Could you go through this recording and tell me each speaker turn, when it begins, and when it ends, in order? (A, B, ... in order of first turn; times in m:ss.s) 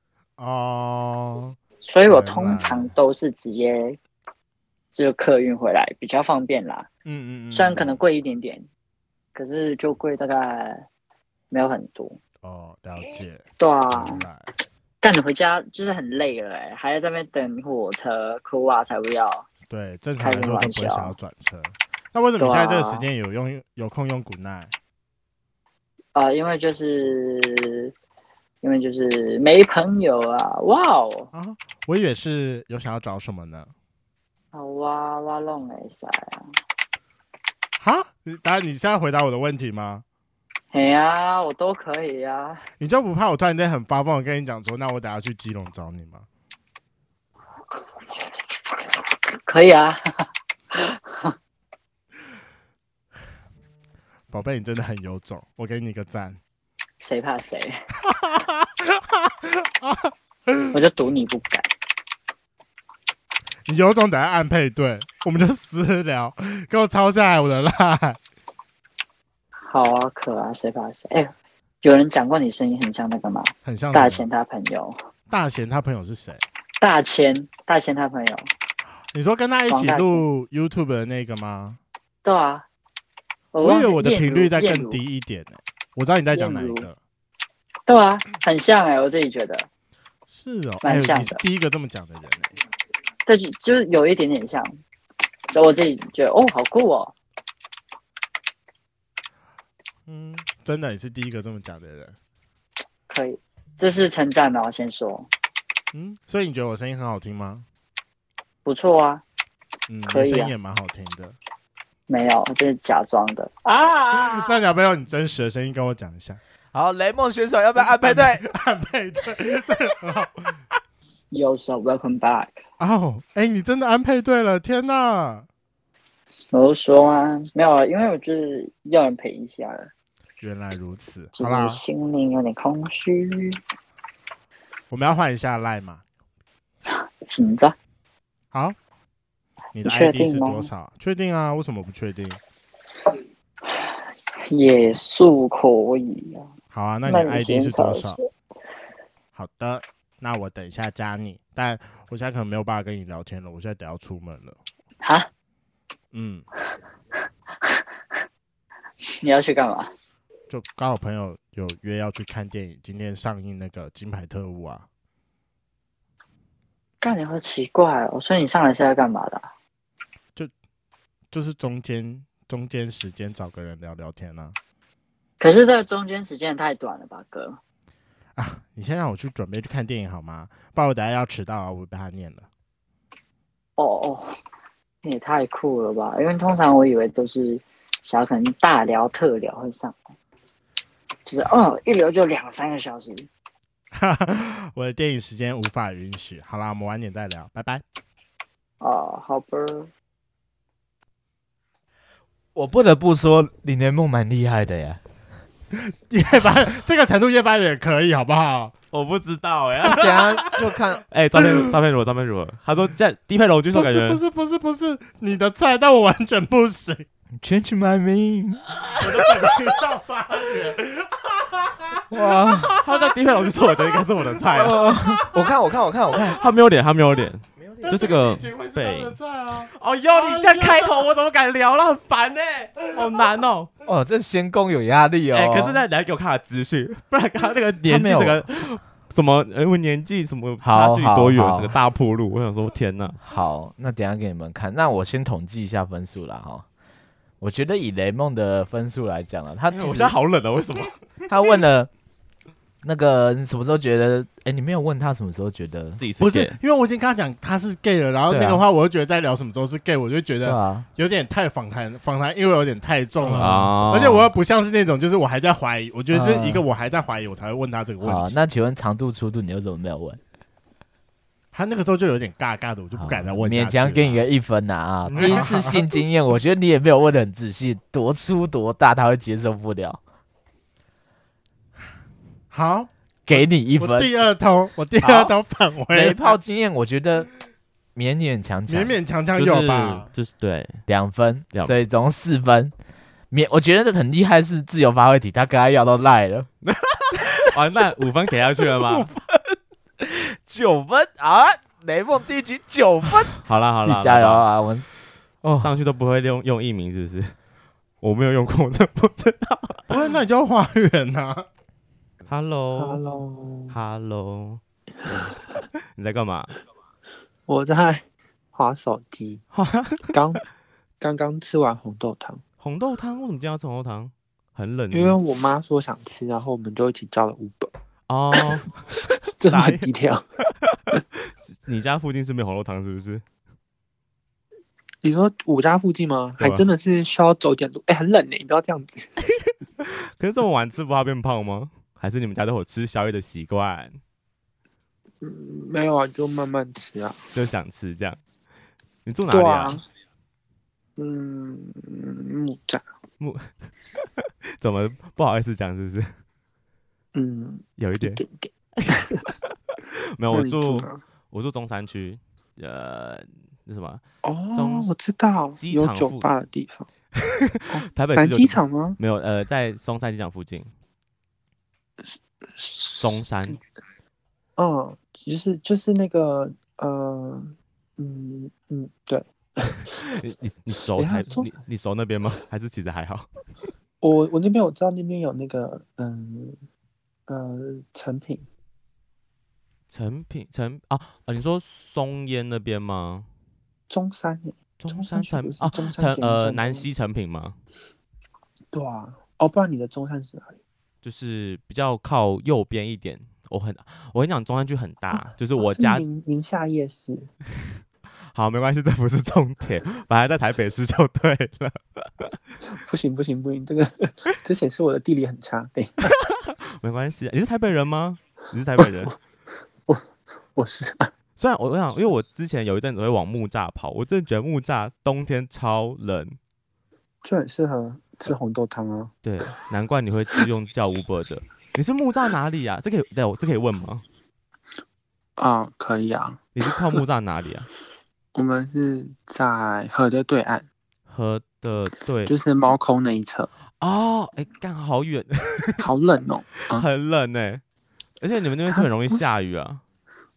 0:00.4-0:02.9 A
0:01.8-0:04.0 B
0:04.9-0:06.9 B
0:07.0-0:08.0 A
0:07.5-0:08.6 B
0:09.3-0:10.8 B
0:11.5-0:12.2 B
0:12.4-0:14.5 A
0:13.6-0:14.2 B
0:15.0-0:19.5 B
0:19.7-0:24.7 A
0:20.2-0:21.2 B
0:22.4-0:23.0 B
0:26.1-0:27.9 B
0:28.6-0:31.3 B
0:31.3-0:33.7 A
0:34.5-0:36.4 B
0:37.8-0:40.0 A
0:40.7-0:42.6 B
0:42.8-0:46.2 A
0:49.5-0:50.0 B
0:50.7-0:51.3 B
0:54.3-0:56.4 A
0:57.0-0:57.8 B
0:58.0-1:00.8 A
1:00.7-1:01.7 B
1:03.6-1:08.2 A
1:09.7-1:15.0 B
1:13.6-1:14.2 A
1:15.3-1:16.4 A
1:16.8-1:18.5 B
1:19.1-1:21.8 A
1:19.7-1:20.2 B
1:22.2-1:22.6 B
1:23.5-1:25.0 B
1:23.6-1:27.0 A
1:26.3-1:26.9 B
1:27.9-1:29.7 B
1:30.3-1:32.6 A
1:30.8-1:31.4 B
1:33.2-1:34.8 B
1:35.5-1:37.1 B
1:40.1-1:42.1 A
1:43.1-1:45.3 B
1:45.9-1:47.6 A
1:48.6-1:49.2 B
1:49.9-1:51.4 A
1:50.0-1:50.5 B
1:52.1-1:54.6 B
1:54.1-1:56.4 A
1:56.7-1:58.4 C
1:57.8-2:00.6 A
2:01.3-2:02.6 B
2:02.8-2:05.4 A
2:06.5-2:09.9 B
2:10.4-2:11.8 A
2:11.3-2:13.6 B
2:14.9-2:16.0 A
2:16.9-2:17.7 B
2:19.7-2:22.4 A
2:19.8-2:20.7 B
2:24.5-2:26.5 B
2:26.7-2:28.2 A
2:27.0-2:28.3 B
2:29.3-2:34.6 A
2:35.0-2:35.3 B
2:36.1-2:36.4 A
2:39.1-2:39.9 B
2:40.5-2:44.8 A
2:47.0-2:49.5 B
2:51.3-2:54.5 A
2:55.4-2:57.6 B
2:58.4-3:02.4 A
3:03.8-3:04.3 B
3:05.0-3:10.0 B
3:11.2-3:13.3 B
3:13.9-3:17.8 A
3:18.8-3:19.9 B
3:22.5-3:25.0 C
3:25.8-3:28.7 A
3:28.9-3:30.6 D
3:29.8-3:30.3 A
3:29.9-3:31.0 C
3:31.1-3:34.2 D
3:31.4-3:31.7 A
3:33.7-3:37.0 A
3:37.4-3:38.6 C
3:39.0-3:42.0 A
3:42.1-3:42.8 C
3:42.3-3:44.9 D
3:44.5-3:46.4 C
3:45.0-3:45.4 A
3:46.1-3:49.1 D
3:47.8-3:50.9 A
3:49.7-3:53.7 D
3:53.8-3:55.8 C
3:55.3-4:03.2 D
3:57.8-3:58.4 C
4:00.6-4:01.8 C
4:03.2-4:06.6 C
4:07.4-4:10.2 C
4:09.7-4:11.0 D
4:11.3-4:11.9 C
4:12.8-4:16.0 C
4:16.0-4:16.6 D
4:16.2-4:28.3 A
4:18.3-4:18.6 C
4:20.4-4:20.9 C
4:23.2-4:23.8 C
4:23.4-4:24.3 D
4:26.1-4:26.6 C
4:28.0-4:30.2 C
4:31.5-4:34.2 A
4:32.9-4:40.0 C
4:35.1-4:35.9 A
4:35.1-4:35.4 D
4:42.5-4:46.4 A
4:43.2-4:44.1 C
4:45.0-4:45.3 C
4:45.9-4:47.3 C
4:47.9-4:49.0 C
4:48.7-4:50.1 A
4:49.4-4:50.8 D
4:50.9-4:52.7 C
4:53.3-4:56.5 C
4:56.6-4:59.1 D
4:58.8-5:04.8 C
5:03.4-5:04.5 D
5:05.4-5:05.7 C
5:05.6-5:07.3 D
5:08.0-5:10.0 D
5:09.9-5:11.4 A
5:12.3-5:13.0 D
5:12.7-5:13.8 E
5:13.7-5:14.6 D
5:16.0-5:16.6 D
5:17.5-5:19.4 E
5:19.5-5:20.2 D
5:20.1-5:20.4 E
5:21.0-5:22.4 E
5:22.6-5:25.2 D
5:24.9-5:27.7 E
5:28.1-5:29.9 D
5:28.3-5:30.2 E
5:30.7-5:33.2 D
5:35.0-5:39.1 E
5:36.4-5:36.6 D
5:39.8-5:44.0 D
5:45.2-5:47.2 E
5:47.3-5:48.2 D
5:49.0-5:49.8 D
5:49.3-5:49.8 E
5:51.0-5:52.8 E
5:53.2-5:56.2 D
5:57.1-5:59.3 E
5:57.8-5:58.2 D
5:58.8-6:04.0 D
6:00.3-6:01.0 E
6:04.2-6:06.9 E
6:04.5-6:04.9 D
6:05.6-6:06.3 D
6:07.2-6:10.7 D
6:07.7-6:09.0 E
6:12.0-6:13.6 E
6:13.0-6:13.6 D
6:14.6-6:19.9 E
6:19.9-6:23.3 D
6:21.0-6:21.6 E
6:24.0-6:26.6 E
6:27.3-6:28.4 E
6:29.9-6:33.3 D
6:33.9-6:36.9 E
6:34.8-6:37.6 D
6:38.7-6:40.6 E
6:41.0-6:46.0 D
6:45.2-6:47.3 E
6:48.3-6:52.4 D
6:52.7-6:56.1 E
6:56.0-6:59.2 D
6:58.8-6:59.1 E
6:59.8-7:01.1 E
7:01.4-7:06.4 D
7:07.2-7:09.1 E
7:09.2-7:14.0 D
7:15.4-7:17.0 E
7:16.6-7:17.7 D
7:18.3-7:20.6 E
7:21.1-7:22.3 D
7:22.2-7:23.5 E
7:23.8-7:25.8 D
7:25.8-7:26.8 E
7:26.7-7:27.6 D
7:28.2-7:29.8 D
7:28.7-7:29.3 E